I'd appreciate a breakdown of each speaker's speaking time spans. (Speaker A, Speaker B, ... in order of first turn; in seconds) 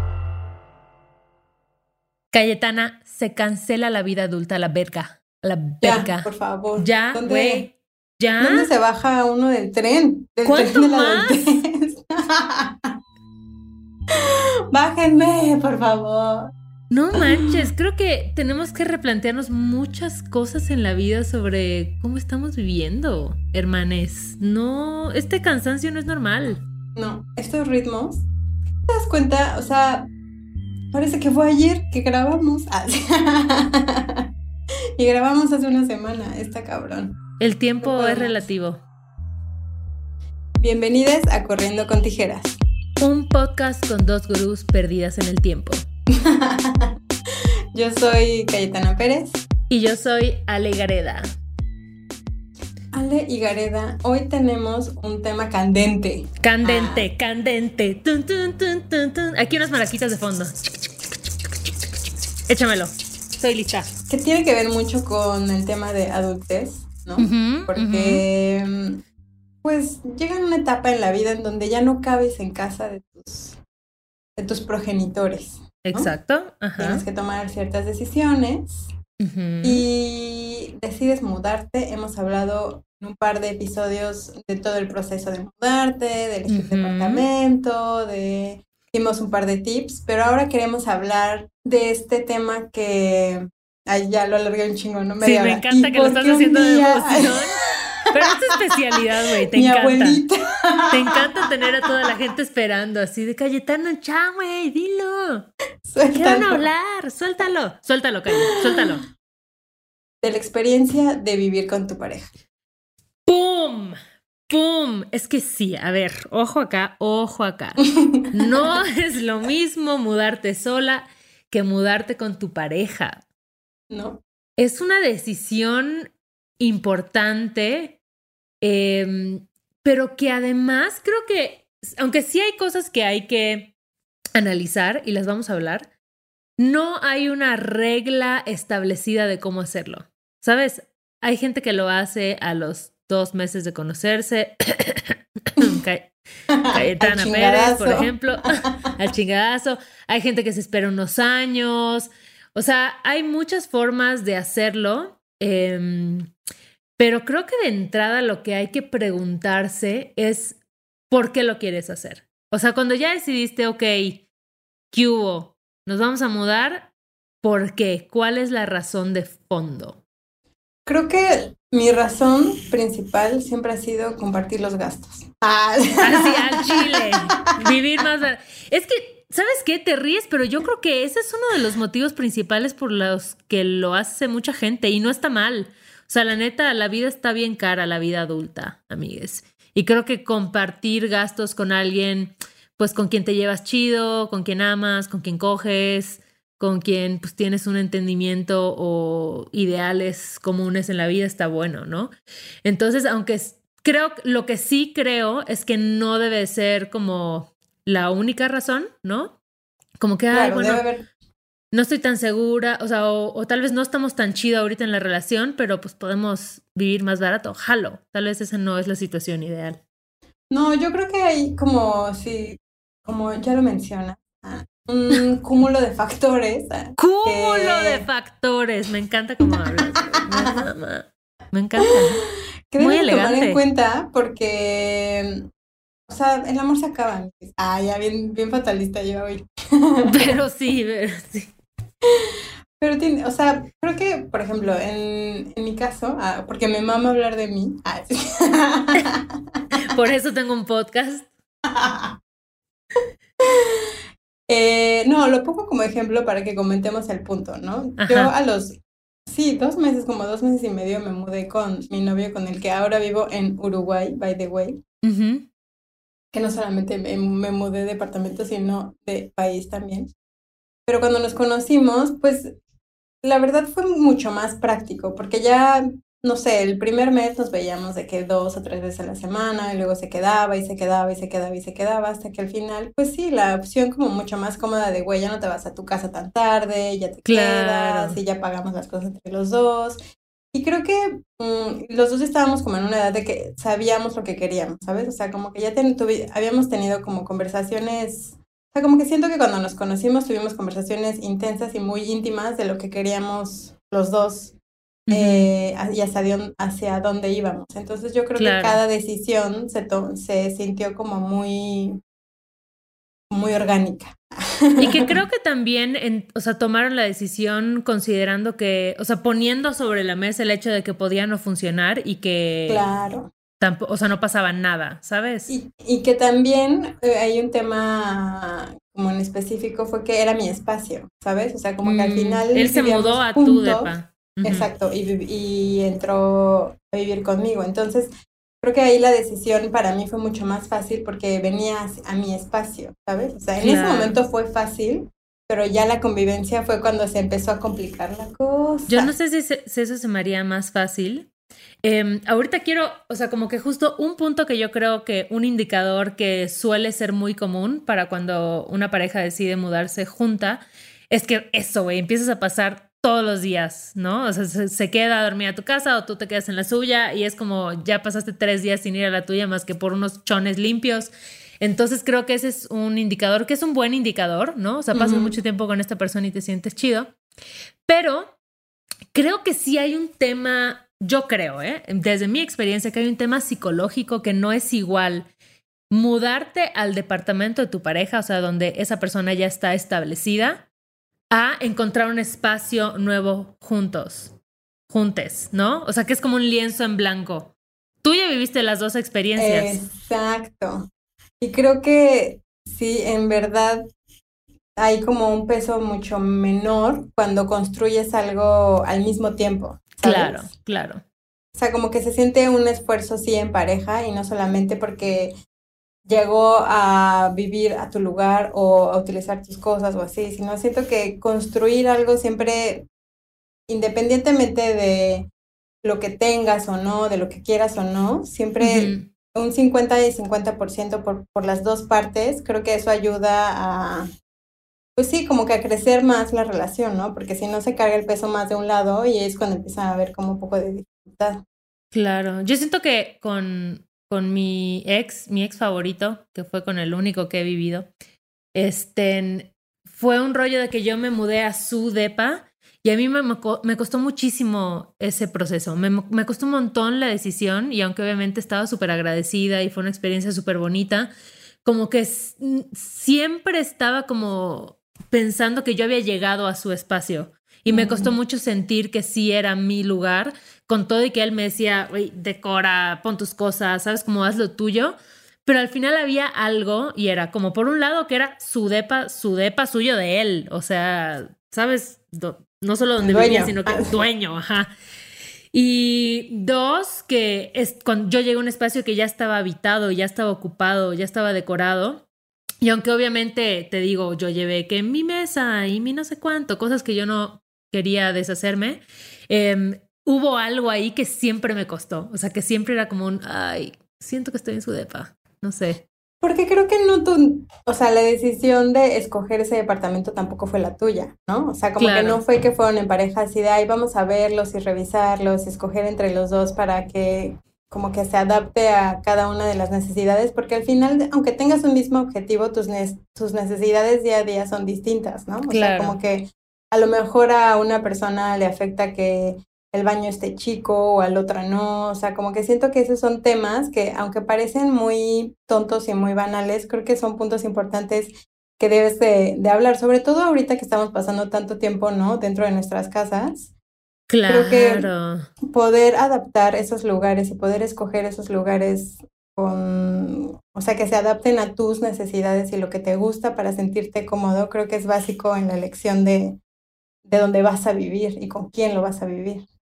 Speaker A: 2.3-8.7, 10.4-11.5, 16.9-26.6, 37.4-38.8, 43.0-45.8, 49.7-51.3, 56.4-60.6, 62.5-63.9, 67.2-68.2, 75.8-77.0, 79.2-79.8, 86.5-87.3, 95.2-100.2, 100.9-105.5, 106.1-109.0, 113.3-114.0, 114.5-123.2, 124.6-128.0, 128.6-133.7, 134.3-135.9, 136.6-146.1, 146.7-156.3, 157.0-160.6, 161.1-164.2, 164.9-166.9, 167.4-170.0, 176.0-202.1, 202.6-209.3, 210.0-210.8, 211.7-219.8, 226.9-232.2, 232.8-233.6, 240.0-241.5, 249.7-251.3, 258.0-258.3, 265.0-265.4, 287.2-288.2, 305.1-305.5, 308.4-308.8, 314.8-322.9, 323.6-325.5, 331.8-334.7, 343.6-344.2, 348.9-351.3, 351.8-377.1, 377.9-378.3, 379.1-385.3, 385.9-390.6, 391.3-394.3, 394.9-397.5, 398.0-399.8, 410.0-411.0, 428.6-429.1, 441.9-447.9, 448.5-461.1, 461.6-484.7, 485.5-492.0, 492.6-505.8, 511.8-512.2, 525.5-526.0, 544.1-545.3
Speaker B: 5.8-7.7, 8.4-12.9, 14.1-16.5, 17.1-17.6, 26.9-28.2, 28.9-30.1, 30.9-34.3, 35.0-37.2, 37.8-38.4, 40.6-42.6, 46.1-47.0, 47.7-49.4, 52.9-57.0, 64.1-69.0, 69.6-73.6, 74.4-76.1, 76.8-78.9, 79.6-98.5, 99.4-102.1, 105.8-106.6, 108.4-108.8, 110.2-112.3, 118.0-118.3, 123.9-124.2, 146.5-148.1, 170.8-177.1, 210.3-211.1, 220.5-228.1, 229.4-230.7, 232.7-235.5, 236.1-240.2, 242.0-249.6, 251.6-252.2, 253.4-253.9, 254.5-264.8, 266.3-270.1, 270.9-272.5, 273.2-290.0, 290.5-304.5, 305.1-312.0, 313.3-315.1, 322.7-323.3, 325.5-333.9, 334.4-349.1, 374.9-375.4, 399.4-400.9, 401.4-403.9, 404.8-410.5, 411.5-415.3, 416.1-422.9, 423.7-425.3, 425.8-434.1, 434.9-441.4, 467.7-468.1, 483.0-483.9, 506.2-543.5, 544.3-544.9, 545.5-556.4, 557.0-559.5